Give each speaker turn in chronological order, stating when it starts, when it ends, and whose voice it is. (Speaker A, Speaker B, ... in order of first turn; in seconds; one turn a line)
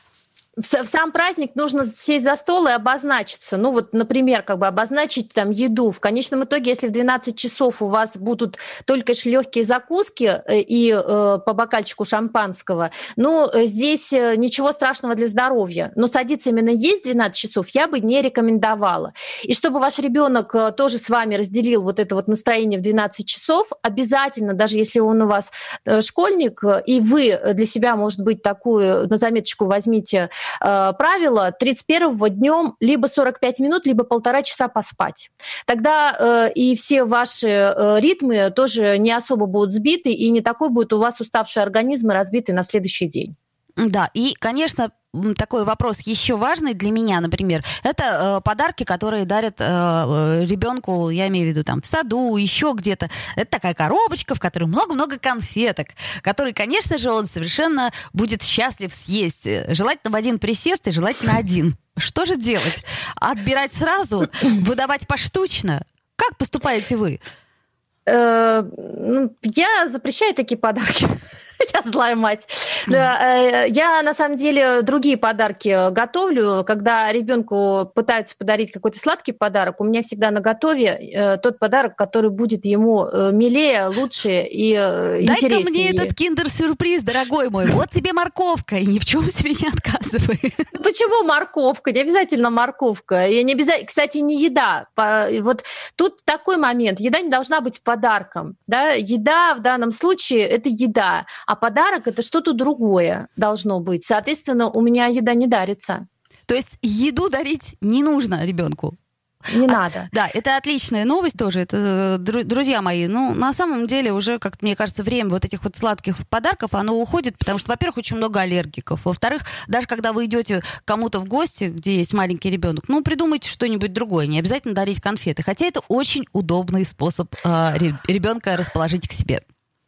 Speaker A: 0.6-43.3
Speaker B: 43.8-67.2
Speaker A: 68.1-86.1
Speaker B: 85.2-90.7
Speaker A: 90.8-106.0
Speaker B: 106.5-109.0
Speaker A: 109.5-110.1
Speaker B: 109.7-129.4